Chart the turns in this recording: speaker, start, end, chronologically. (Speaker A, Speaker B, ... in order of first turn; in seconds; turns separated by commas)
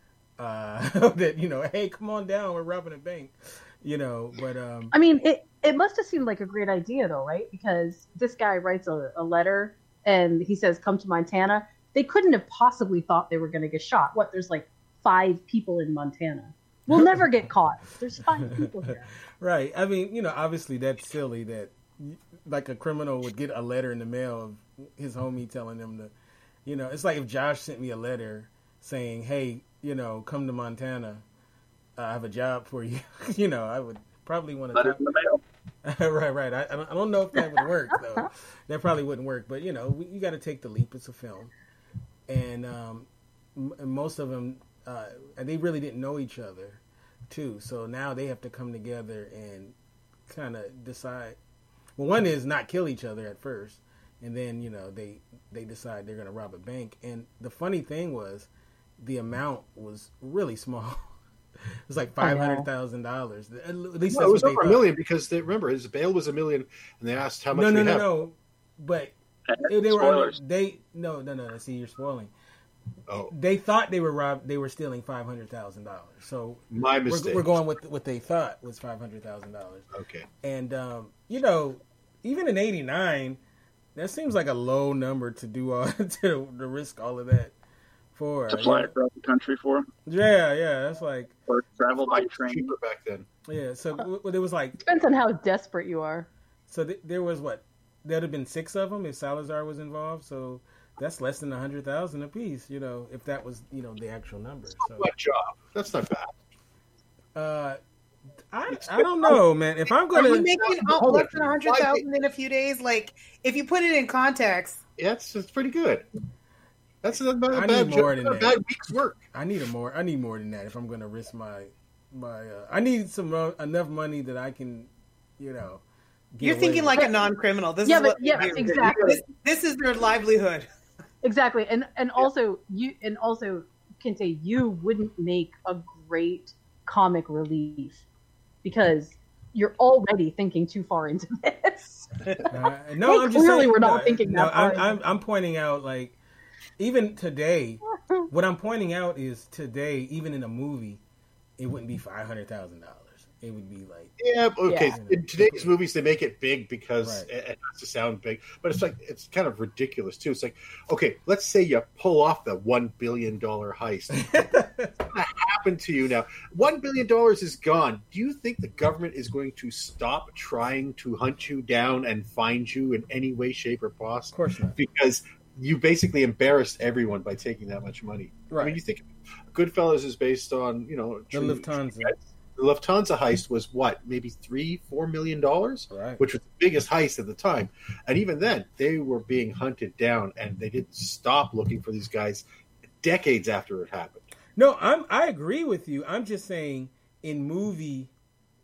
Speaker A: 0.4-4.9, Speaker B: 4.9-19.1, Speaker A: 16.9-17.2, Speaker A: 19.4-26.1, Speaker A: 26.7-31.2, Speaker A: 32.0-35.0, Speaker C: 34.7-35.4, Speaker A: 35.8-41.5, Speaker A: 42.3-49.7, Speaker A: 50.3-51.4, Speaker A: 52.0-58.5, Speaker A: 59.0-61.1, Speaker A: 61.9-64.8, Speaker B: 62.2-62.7, Speaker D: 64.1-68.1, Speaker A: 67.5-69.1, Speaker C: 69.5-70.4, Speaker A: 69.7-72.3, Speaker A: 73.3-79.9, Speaker D: 76.7-77.5, Speaker D: 79.9-80.3, Speaker A: 80.4-83.4, Speaker A: 84.0-87.5, Speaker A: 88.2-88.9, Speaker C: 88.5-89.9, Speaker A: 90.1-91.3, Speaker C: 91.5-92.7, Speaker D: 91.9-93.3, Speaker A: 93.5-94.9, Speaker B: 94.8-96.3, Speaker A: 96.7-105.1, Speaker D: 104.8-106.3, Speaker A: 107.4-107.8, Speaker A: 108.5-110.5, Speaker D: 108.7-109.4, Speaker D: 110.1-112.0, Speaker E: 110.1-114.8, Speaker D: 115.0-116.0, Speaker D: 117.0-119.2, Speaker A: 117.5-118.6, Speaker A: 119.3-127.0, Speaker E: 126.4-130.7, Speaker B: 127.8-129.2, Speaker B: 131.2-138.0, Speaker B: 138.6-145.0, Speaker A: 142.5-146.2, Speaker A: 146.8-151.0, Speaker A: 151.6-154.1, Speaker D: 154.2-164.5, Speaker B: 154.7-154.9, Speaker A: 154.9-155.7, Speaker A: 157.0-157.3, Speaker A: 164.3-164.9, Speaker D: 165.1-192.4, Speaker A: 174.3-174.8, Speaker A: 178.5-178.8, Speaker A: 181.3-182.2, Speaker A: 185.9-186.2, Speaker D: 193.0-194.3, Speaker A: 194.6-198.1